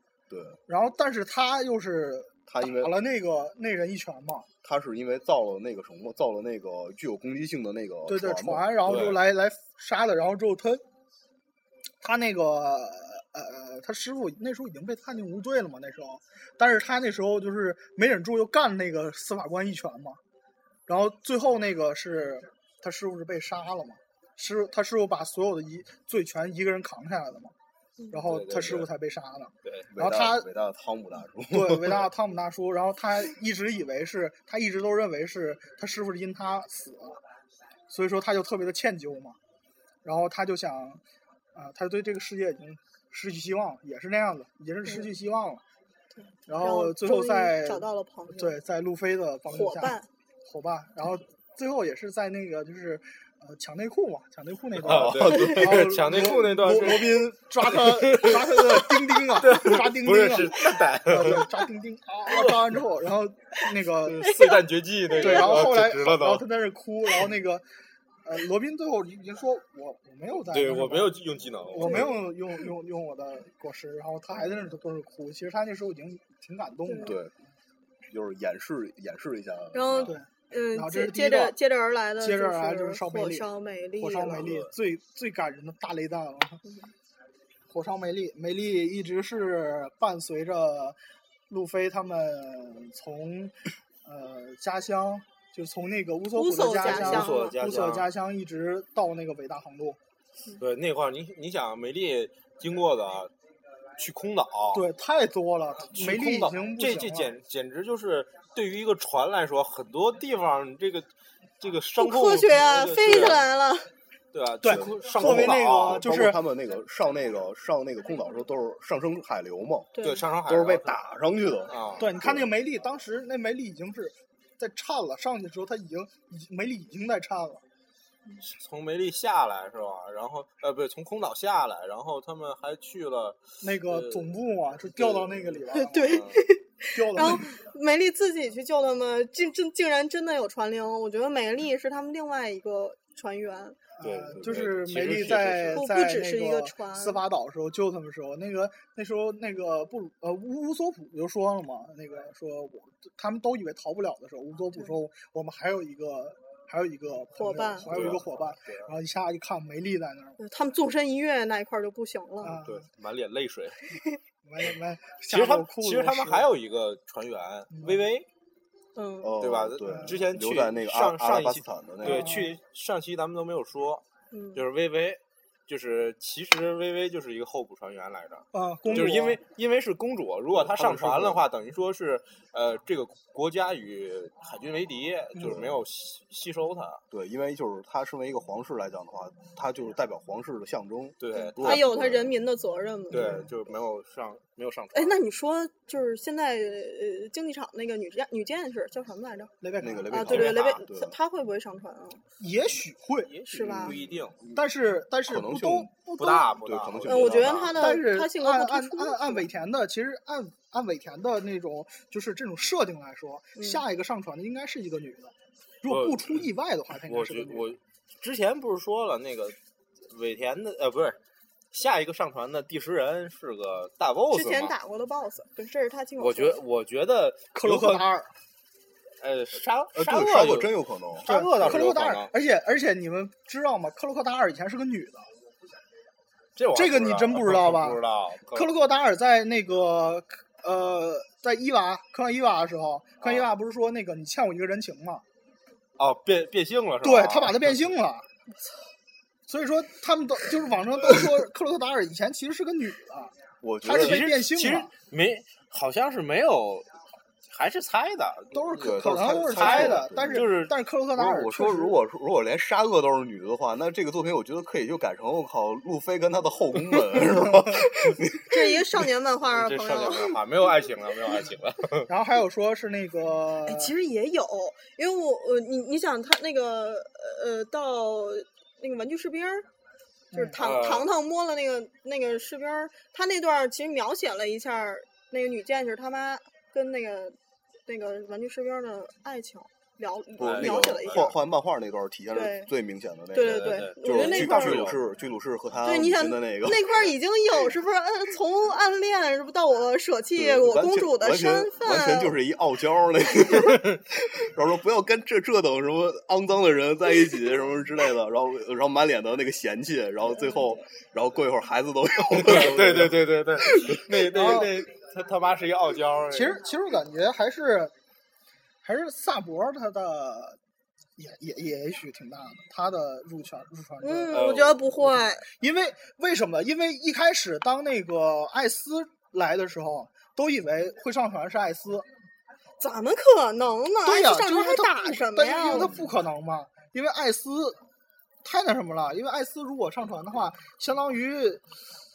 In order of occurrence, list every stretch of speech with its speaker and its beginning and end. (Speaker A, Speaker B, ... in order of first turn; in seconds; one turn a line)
Speaker A: 0.3-0.6
Speaker B: 0.7-4.5
Speaker A: 2.5-2.9
Speaker A: 4.6-8.8
Speaker B: 8.1-10.8
Speaker C: 8.8-9.2
Speaker B: 12.0-20.2
Speaker B: 20.9-27.5
Speaker B: 28.1-30.4
Speaker C: 28.2-28.9
Speaker A: 29.9-32.1
Speaker B: 31.5-37.2
Speaker B: 37.9-39.4
Speaker B: 40.0-41.0
Speaker B: 41.5-45.6
Speaker D: 46.2-48.6
Speaker B: 46.5-47.8
Speaker B: 48.4-64.2
Speaker D: 49.5-50.1
Speaker A: 54.8-56.0
Speaker C: 54.8-61.6
Speaker C: 62.3-62.8
Speaker C: 64.0-66.4
Speaker D: 64.2-65.7
Speaker B: 65.1-67.6
Speaker B: 68.2-71.2
Speaker C: 70.3-72.2
Speaker B: 71.7-77.2
Speaker D: 71.8-72.1
Speaker D: 76.8-77.2
Speaker A: 77.0-77.3
Speaker A: 78.1-80.2
Speaker D: 79.7-84.4
Speaker B: 80.0-81.5
Speaker B: 82.2-86.6
Speaker C: 84.3-84.7
Speaker D: 86.6-86.9
Speaker B: 87.7-91.0
Speaker B: 91.5-100.0
Speaker D: 96.3-97.5
Speaker C: 96.8-98.1
Speaker C: 100.6-103.3
Speaker C: 104.0-104.8
Speaker B: 104.7-107.3
Speaker C: 105.9-111.1
Speaker C: 111.6-113.5
Speaker D: 112.0-113.9
Speaker C: 114.3-116.0
Speaker B: 114.6-116.4
Speaker A: 114.7-119.9
Speaker D: 119.9-120.2
Speaker C: 120.0-121.0
Speaker A: 120.4-122.5
Speaker C: 121.7-122.1
Speaker B: 122.0-127.6
Speaker C: 128.4-134.3
Speaker B: 133.6-136.1
Speaker C: 134.9-136.4
Speaker D: 135.7-143.8
Speaker B: 136.9-137.5
Speaker B: 144.0-160.4
Speaker C: 144.0-145.9
Speaker D: 145.7-147.2
Speaker D: 157.3-157.9
Speaker C: 157.9-158.9
Speaker D: 160.4-162.6
Speaker B: 162.4-162.8
Speaker C: 162.6-163.8
Speaker D: 163.9-164.2
Speaker B: 164.4-166.4
Speaker C: 165.3-168.3
Speaker B: 167.7-168.1
Speaker D: 168.9-169.3
Speaker A: 169.2-172.4
Speaker C: 169.4-174.0
Speaker B: 169.9-170.2
Speaker B: 172.0-172.5
Speaker D: 174.3-174.6
Speaker C: 174.5-187.0
Speaker B: 178.5-179.4
Speaker A: 180.5-181.4
Speaker A: 185.4-185.8
Speaker A: 187.1-192.3
Speaker C: 191.2-192.2
Speaker D: 191.3-193.4
Speaker C: 193.1-195.2
Speaker A: 193.1-193.5
Speaker D: 194.9-199.5
Speaker B: 199.6-200.1
Speaker A: 199.8-201.1
Speaker D: 200.1-202.2
Speaker C: 200.2-200.8
Speaker B: 202.4-203.3
Speaker C: 203.2-204.4
Speaker D: 203.5-204.0
Speaker A: 203.7-204.6
Speaker B: 204.5-206.6
Speaker A: 205.2-205.9
Speaker C: 206.2-207.9
Speaker A: 206.6-207.7
Speaker D: 207.1-209.5
Speaker B: 207.7-217.7
Speaker D: 213.6-213.8
Speaker C: 215.9-216.5
Speaker C: 217.0-219.6
Speaker C: 220.1-221.2
Speaker C: 221.7-224.7
Speaker D: 224.3-226.6
Speaker C: 226.2-228.1
Speaker B: 227.5-228.3
Speaker C: 229.2-232.3
Speaker A: 229.9-231.9
Speaker B: 231.2-235.2
Speaker C: 236.6-238.7
Speaker B: 236.7-238.0
Speaker B: 238.5-245.2
Speaker C: 243.2-243.5
Speaker C: 246.0-247.8
Speaker B: 247.0-248.2
Speaker B: 249.5-254.9
Speaker A: 253.6-254.2
Speaker C: 253.8-256.9
Speaker C: 257.5-260.8
Speaker B: 258.5-262.0
Speaker A: 258.8-260.4
Speaker A: 261.1-268.8
Speaker D: 268.5-270.4
Speaker C: 269.5-272.1
Speaker B: 272.1-273.9
Speaker D: 273.6-279.7
Speaker B: 280.3-280.6
Speaker D: 280.3-291.3
Speaker C: 280.6-281.1
Speaker A: 290.4-297.1
Speaker C: 290.4-291.3
Speaker D: 292.3-292.7
Speaker D: 293.3-294.8
Speaker C: 293.4-295.0
Speaker D: 295.8-302.3
Speaker A: 300.4-313.2
Speaker C: 312.3-316.6
Speaker B: 314.1-314.7
Speaker B: 316.3-317.9
Speaker B: 318.8-320.6
Speaker B: 321.2-324.4
Speaker D: 324.0-325.4
Speaker C: 324.3-324.8
Speaker B: 325.0-332.1
Speaker D: 332.8-335.9
Speaker B: 334.0-337.8
Speaker A: 335.7-336.1
Speaker B: 338.4-341.6